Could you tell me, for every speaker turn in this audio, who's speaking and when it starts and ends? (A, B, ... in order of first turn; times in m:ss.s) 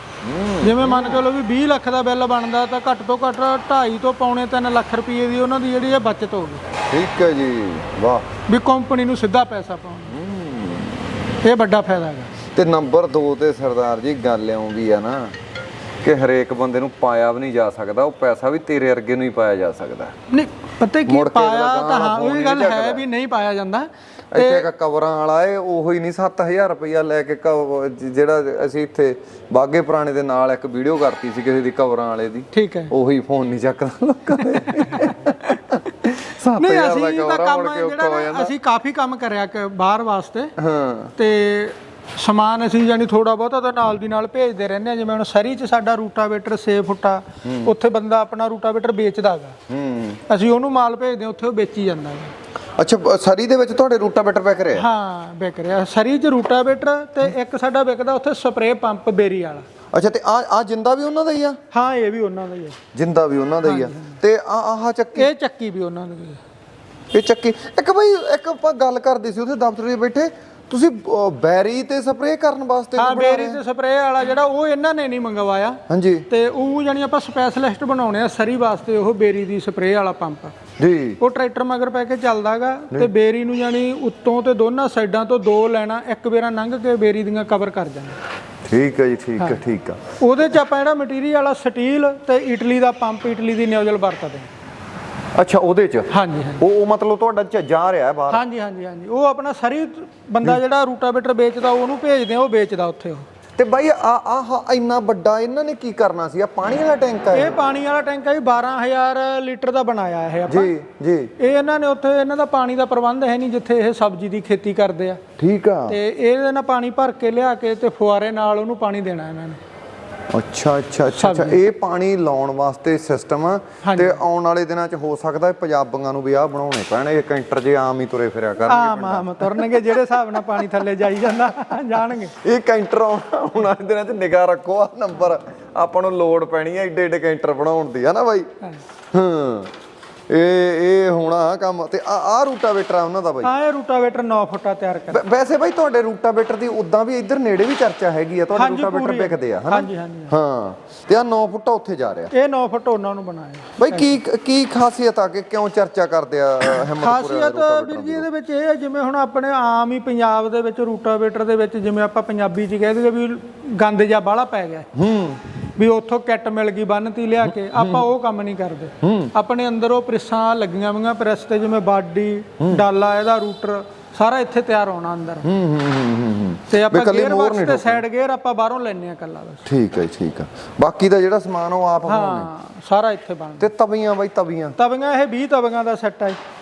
0:00.2-0:01.2 A
0:00.6-0:06.6 B
0:06.9-0:08.2 A
0:08.5-0:10.1 B
0:10.1-0:11.0 A
0:11.4-0:12.3 B
0:12.5-0:15.3 A
0:16.0-0:20.1 A
0:20.3-0:24.7 B
0:21.0-0:23.0 A
0:24.3-0:38.5 A
0:32.5-0:32.9 B
0:34.6-0:35.3 B
0:36.6-0:40.5 B
0:40.6-0:41.1 A
0:41.2-0:49.6 B
0:47.4-0:47.7 A
0:49.7-0:50.2 A
0:50.3-0:52.3 B
0:52.8-0:54.8 A
0:54.8-0:59.6 B
0:59.9-1:01.6 A
1:01.7-1:02.8 B
1:02.9-1:05.3 A
1:03.6-1:04.2 B
1:05.1-1:06.4 B
1:07.1-1:13.6 A
1:13.0-1:20.5 B
1:15.9-1:16.2 A
1:20.8-1:21.2 A
1:21.2-1:28.2 B
1:28.6-1:30.0 A
1:30.2-1:34.5 B
1:35.3-1:38.4 A
1:36.1-1:36.6 B
1:38.3-1:43.2 B
1:43.6-1:47.6 A
1:47.3-1:50.7 B
1:50.5-1:51.3 A
1:51.4-1:55.2 B
1:55.4-1:56.0 A
1:55.9-1:59.6 B
2:00.3-2:10.6 A
2:01.1-2:01.6 B
2:03.8-2:04.2 B
2:08.6-2:12.3 B
2:12.3-2:18.5 A
2:19.1-2:19.7 A
2:20.3-2:23.5 A
2:23.4-2:25.2 B
2:25.1-2:32.3 A
2:28.5-2:30.4 B
2:32.3-2:34.2 B
2:33.8-2:38.2 A
2:36.8-2:44.9 B
2:44.9-2:45.4 A
2:45.8-2:55.5 B
2:47.8-2:48.0 A
2:49.0-2:49.3 A
2:55.4-2:58.0 A
2:56.7-2:59.6 B
2:59.6-3:02.5 A
3:02.0-3:03.7 B
3:03.6-3:04.8 A
3:04.8-3:06.4 B